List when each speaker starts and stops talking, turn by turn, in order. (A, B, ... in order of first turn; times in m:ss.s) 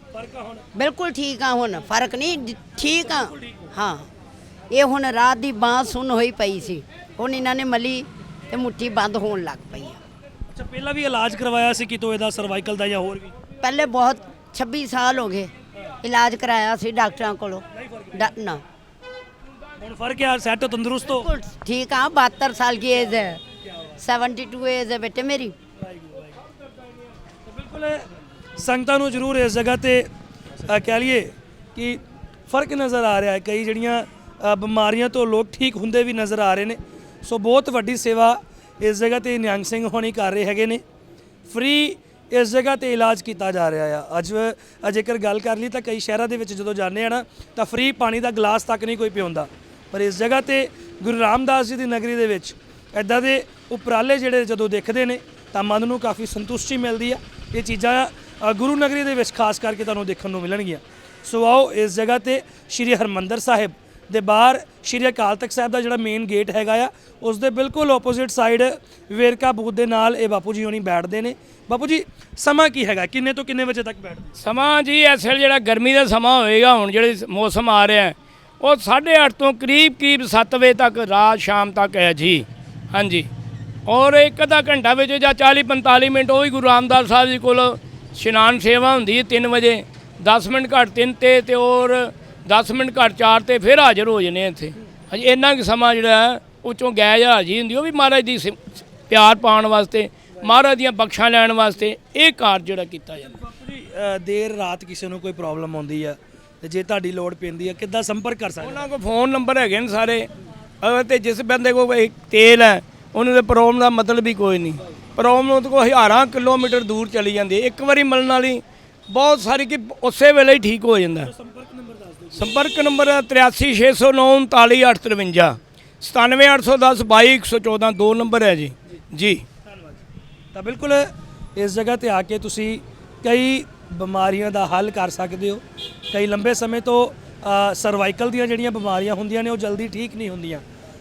0:00.1-0:00.7 A
0:00.7-0:04.1 B
0:04.7-0:10.0 B
0:10.5-0:13.3 A
0:13.6-0:18.6 B
0:19.8-0:21.3 A
0:21.2-0:23.4 B
0:24.0-0:25.5 B
0:27.5-0:30.1 A
0:30.6-0:40.8 A
0:41.5-1:14.3 A
1:14.4-1:23.3 C
1:23.8-1:43.3 C
1:43.3-1:48.9 A
1:48.6-1:50.3 C
1:50.8-2:01.3 C
2:01.2-2:02.5 A
2:02.3-2:09.4 C
2:10.5-2:20.6 A